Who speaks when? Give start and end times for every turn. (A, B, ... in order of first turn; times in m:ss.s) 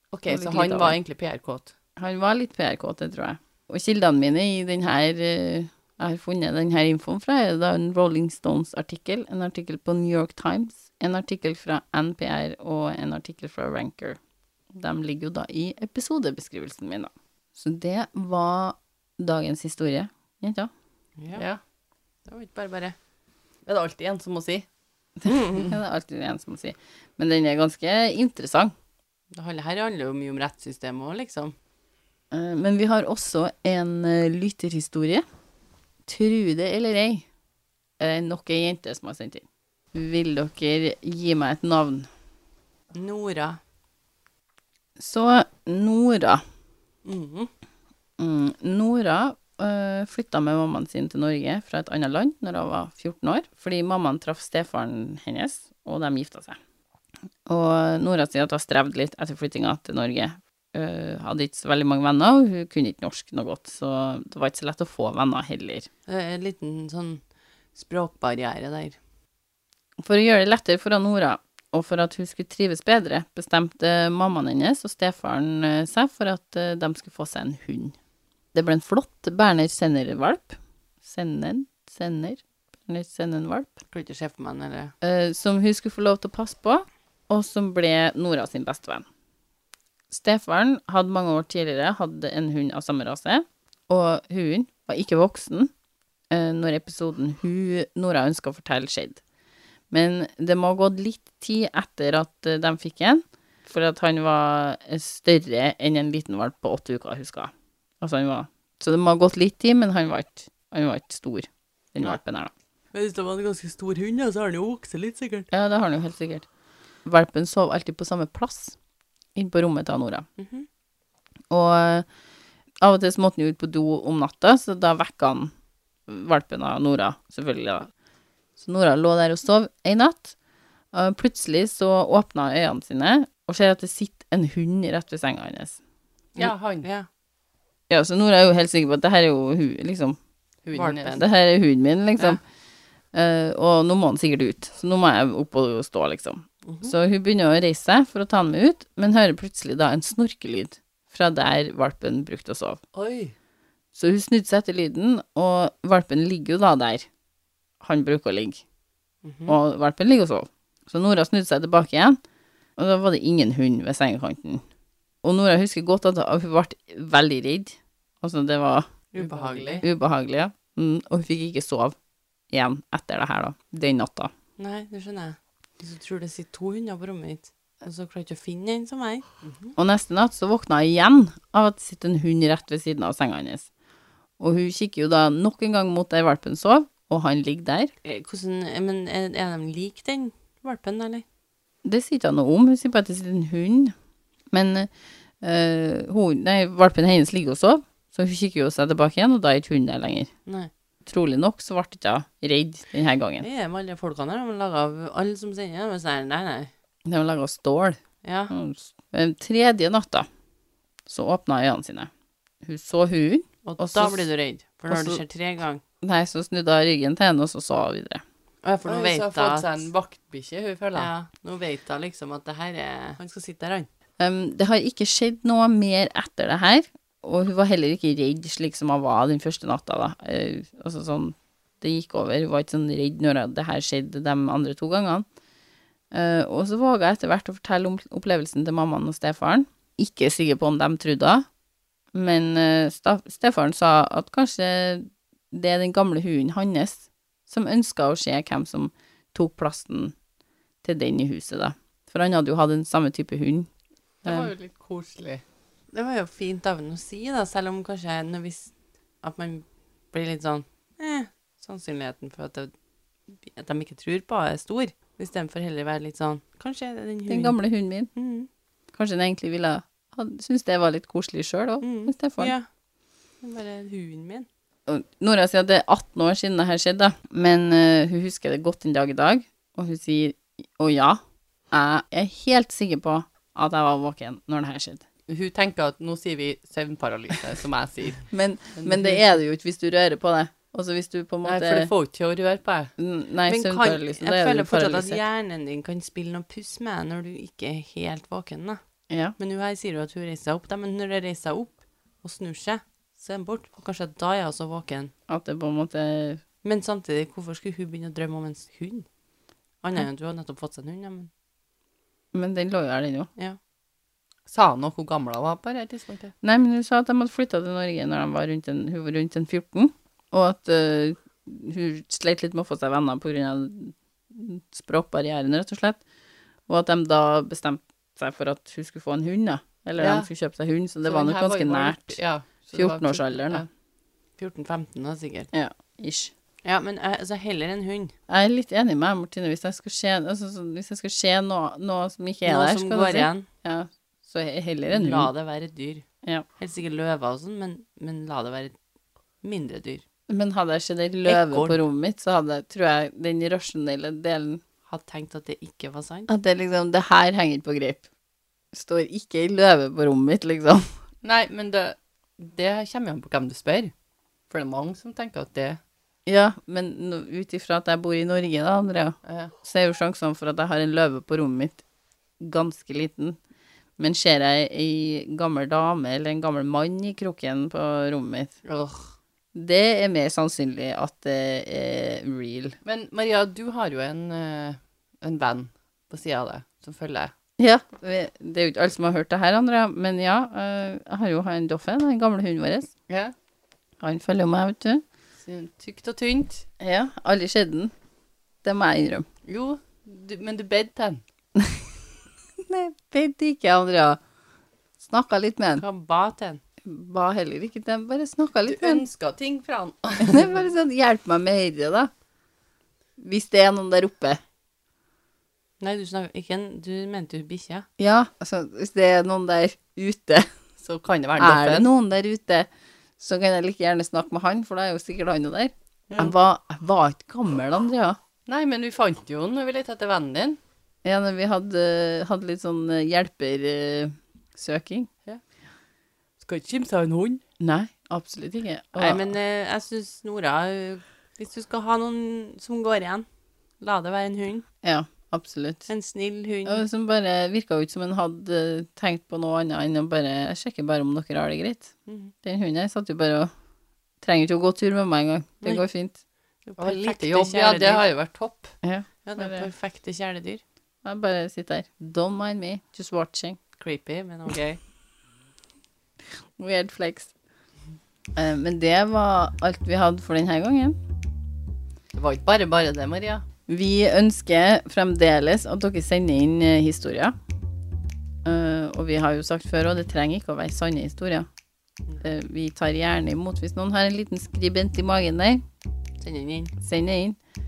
0:00.1-0:01.7 A
0:00.3-0:01.0 B
0:02.0-0:14.2 B
0:14.7-0:20.7 B
0:21.2-0:21.4 C
0:21.3-0:21.6 A
0:22.3-0:23.0 C
0:23.7-0:24.7 A
0:25.2-0:28.7 B
0:29.3-0:31.6 C
0:32.3-0:35.2 B
0:36.1-0:37.2 B
0:38.0-0:42.1 B
0:42.9-0:43.6 C
0:45.0-0:46.4 B
0:47.1-0:47.5 C
0:48.2-0:56.6 B
0:57.5-1:05.9 B
1:06.1-1:07.2 C
1:07.8-1:09.0 C
1:10.0-1:18.0 B
1:18.5-1:23.7 B
1:23.9-1:24.9 C
1:25.0-1:29.0 B
1:30.1-1:35.7 B
1:36.3-1:39.2 B
1:39.9-1:52.5 B
1:52.9-1:55.5 C
1:55.5-1:56.5 B
1:57.0-1:58.8 B
1:59.4-2:00.2 B
2:00.4-2:00.7 C
2:01.5-2:02.1 B
2:02.8-2:05.5 B
2:06.1-2:07.9 B
2:08.6-2:10.4 B
2:10.9-2:15.8 B
2:16.4-2:16.9 A
2:16.4-2:17.1 C
2:17.9-2:20.2 B
2:20.7-2:21.2 A
2:20.8-2:22.4 B
2:20.9-2:21.2 C
2:23.1-2:32.8 B
2:26.7-2:26.9 C
2:32.9-2:33.3 A
2:33.9-2:37.1 B
2:37.8-2:38.6 B
2:39.2-2:39.6 C
2:39.5-2:42.2 B
2:42.8-2:44.6 B
2:45.2-2:49.0 B
2:49.1-2:49.9 C
2:49.2-2:49.8 A
2:49.8-2:52.0 B
2:52.5-2:54.3 B
2:54.6-2:59.7 C
2:59.8-3:03.7 B
3:04.4-3:07.9 B
3:08.0-3:11.2 C
3:11.8-3:13.9 B
3:14.5-3:14.9 B
3:15.4-3:20.3 B
3:20.5-3:20.7 C
3:21.1-3:23.5 B
3:23.4-3:26.7 C
3:27.1-3:28.0 B
3:28.2-3:28.5 C
3:28.5-3:30.3 B
3:31.1-3:32.1 B
3:32.6-3:34.2 B
3:33.6-3:35.8 C
3:34.9-3:35.2 B
3:36.0-3:38.2 B
3:38.6-3:39.9 C
3:38.9-3:41.1 A
3:41.0-3:43.9 C
3:44.2-3:55.3 B
3:56.1-4:01.5 B
4:02.1-4:10.1 B
4:10.8-4:13.7 B
4:14.2-4:15.4 A
4:14.2-4:14.5 B
4:15.9-4:22.7 C
4:23.4-4:27.6 C
4:27.3-4:28.1 B
4:28.2-4:28.5 C
4:28.9-4:32.5 B
4:31.8-4:32.7 C
4:33.4-4:34.5 C
4:34.9-4:45.0 B
4:45.3-4:48.3 A
4:48.3-4:51.9 B
4:48.8-4:49.2 A
4:51.4-4:52.9 A
4:53.0-4:55.2 B
4:53.5-4:58.8 C
4:59.1-4:59.4 B
4:59.4-5:05.1 C
5:05.3-5:06.4 B
5:06.6-5:09.1 C
5:09.8-5:11.3 C
5:12.3-5:13.3 B
5:14.5-5:16.3 A
5:16.4-5:26.0 B
5:26.7-5:33.6 B
5:30.0-5:30.3 A
5:31.0-5:33.7 A
5:34.4-5:35.5 C
5:35.5-5:36.3 B
5:36.6-5:38.1 C
5:38.3-5:45.3 B
5:42.4-5:43.5 C
5:44.9-5:46.0 C
5:46.6-5:48.8 C
5:49.4-5:50.0 C
5:50.3-5:54.6 B
5:51.2-5:51.8 C
5:54.9-5:56.3 C
5:56.3-5:58.1 B
5:58.7-6:01.0 B
6:01.2-6:03.9 A
6:04.5-6:05.8 A
6:06.3-6:11.8 B
6:09.3-6:09.5 A
6:12.4-6:13.4 B
6:14.0-6:18.5 B
6:18.7-6:19.1 A
6:19.6-6:22.8 B
6:22.8-6:27.3 A
6:27.6-6:32.9 B
6:33.1-6:33.3 A
6:34.0-6:35.0 B
6:35.4-6:36.6 A
6:36.8-6:37.9 B
6:38.6-6:39.2 B
6:39.5-6:41.2 A
6:41.6-6:41.9 B
6:42.6-6:44.2 B
6:45.0-6:45.8 B
6:45.8-6:46.6 C
6:46.8-6:49.0 B
6:48.6-6:50.5 A
6:50.2-6:52.1 B
6:53.2-6:54.4 B
6:55.8-6:57.9 C
6:58.0-7:00.5 B
7:00.8-7:01.9 A
7:01.4-7:02.7 B
7:03.2-7:08.2 B
7:06.1-7:06.4 A
7:08.5-7:10.6 A
7:11.0-7:15.1 B
7:16.4-7:17.4 A
7:17.6-7:19.2 B
7:19.0-7:23.3 C
7:23.8-7:24.7 C
7:24.8-7:25.8 B
7:25.9-7:26.9 C
7:26.7-7:33.5 B
7:32.1-7:32.3 C
7:34.2-7:36.2 B
7:36.7-7:38.1 C
7:36.8-7:38.7 A
7:38.8-7:39.7 B
7:39.3-7:40.6 C
7:41.0-7:43.6 B
7:43.8-7:44.8 C
7:46.6-7:47.3 B
7:48.4-7:51.0 B
7:52.1-7:53.4 A
7:53.7-7:57.4 B
7:58.4-8:01.5 B
8:02.2-8:05.6 B
8:06.2-8:06.7 C
8:06.8-8:07.4 B